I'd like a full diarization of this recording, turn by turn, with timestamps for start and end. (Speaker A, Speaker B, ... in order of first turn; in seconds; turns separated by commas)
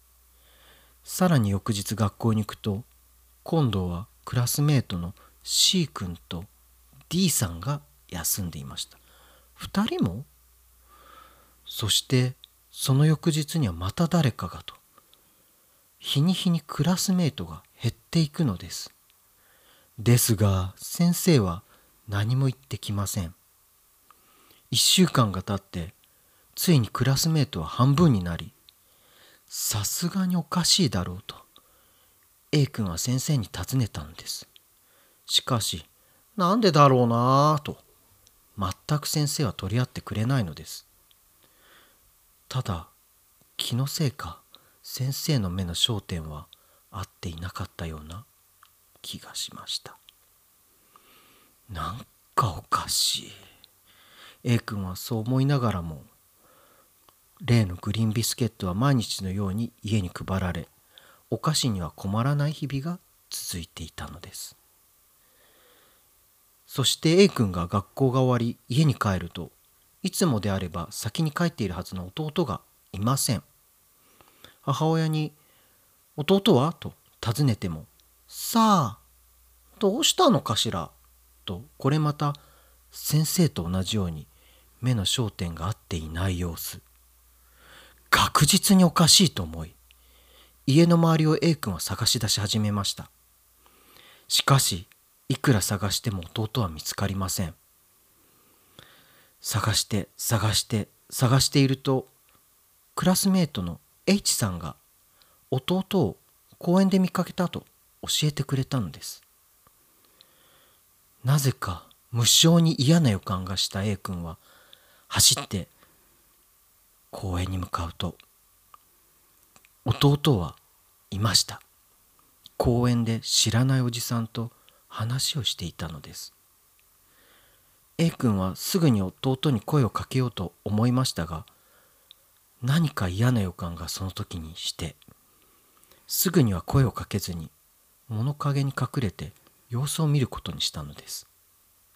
Speaker A: 1.0-2.9, Speaker A: 3.4-6.5, Speaker A: 7.1-9.0, Speaker A: 9.6-10.3, Speaker A: 11.7-14.8, Speaker A: 16.0-18.9, Speaker A: 20.0-23.4, Speaker A: 24.7-25.9, Speaker A: 26.5-28.5, Speaker A: 29.5-31.4, Speaker A: 32.5-34.5, Speaker A: 35.3-37.8, Speaker A: 38.6-40.9, Speaker A: 42.5-42.9, Speaker A: 43.6-48.3, Speaker A: 49.0-50.0, Speaker A: 51.7-53.4, Speaker A: 54.4-56.1, Speaker A: 57.4-60.7, Speaker A: 61.3-64.5, Speaker A: 66.7-73.5, Speaker A: 74.6-75.4, Speaker A: 76.2-79.0, Speaker A: 79.8-80.9, Speaker A: 81.5-82.4, Speaker A: 82.9-84.3, Speaker A: 84.8-86.8, Speaker A: 88.1-89.8, Speaker A: 90.7-93.1, Speaker A: 94.3-97.6, Speaker A: 99.4-102.1, Speaker A: 103.0-104.8, Speaker A: 105.5-109.2, Speaker A: 111.2-114.4, Speaker A: 115.1-115.7, Speaker A: 117.1-118.2, Speaker A: 119.8-120.6, Speaker A: 121.1-121.6, Speaker A: 122.6-126.3, Speaker A: 128.0-131.5, Speaker A: 132.6-135.0, Speaker A: 136.1-137.5, Speaker A: 138.1-141.3